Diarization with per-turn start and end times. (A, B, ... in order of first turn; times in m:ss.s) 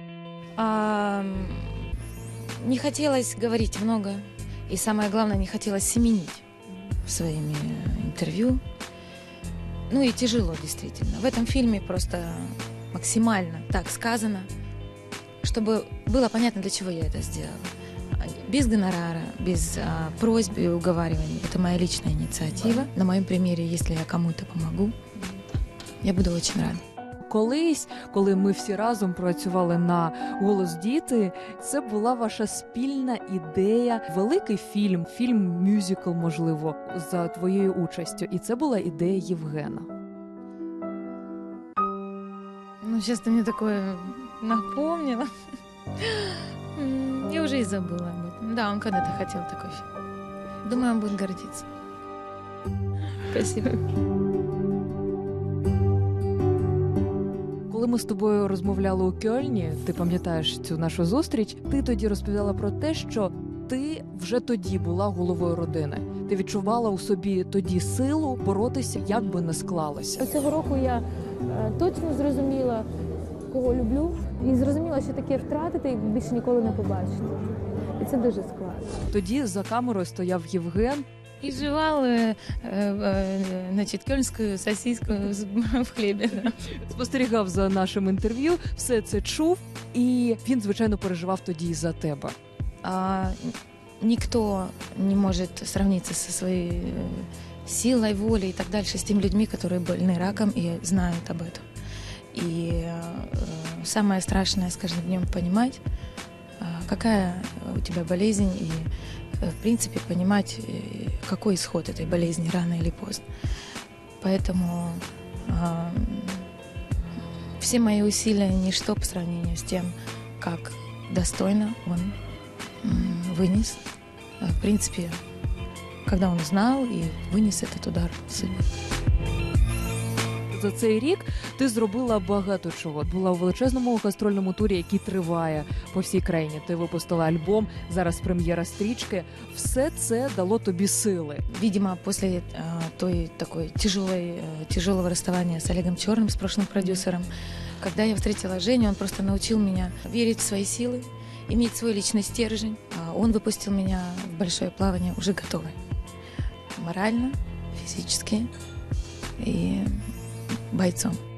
0:00.6-0:01.9 A
0:02.6-0:06.4 A
0:07.0-0:08.6 A
0:09.9-0:14.5 A
0:15.4-0:24.9 A
0:26.0-0:26.8 A
0:27.3-0:39.9 B
0:42.8-0:45.3 A
0:46.0-0:49.9 A
0:50.6-0:51.7 A
0:53.3-0:53.8 A
0:57.7-1:10.3 B
1:10.2-1:12.9 C
1:13.5-1:17.4 C
1:18.0-1:19.0 C
1:19.1-1:21.0 B
1:21.4-1:26.6 A
1:26.6-1:32.4 B
1:32.8-1:41.6 A
1:42.3-1:45.8 A
1:46.6-1:48.9 A
1:49.4-1:53.2 A
1:54.2-1:56.5 A
1:57.6-2:02.2 A
2:02.8-2:03.8 A
2:04.4-2:05.2 A
2:06.1-2:08.7 A
2:10.5-2:21.4 B
2:21.5-2:35.8 A
2:36.8-2:38.5 A
2:39.4-2:40.0 A
2:40.7-2:41.2 A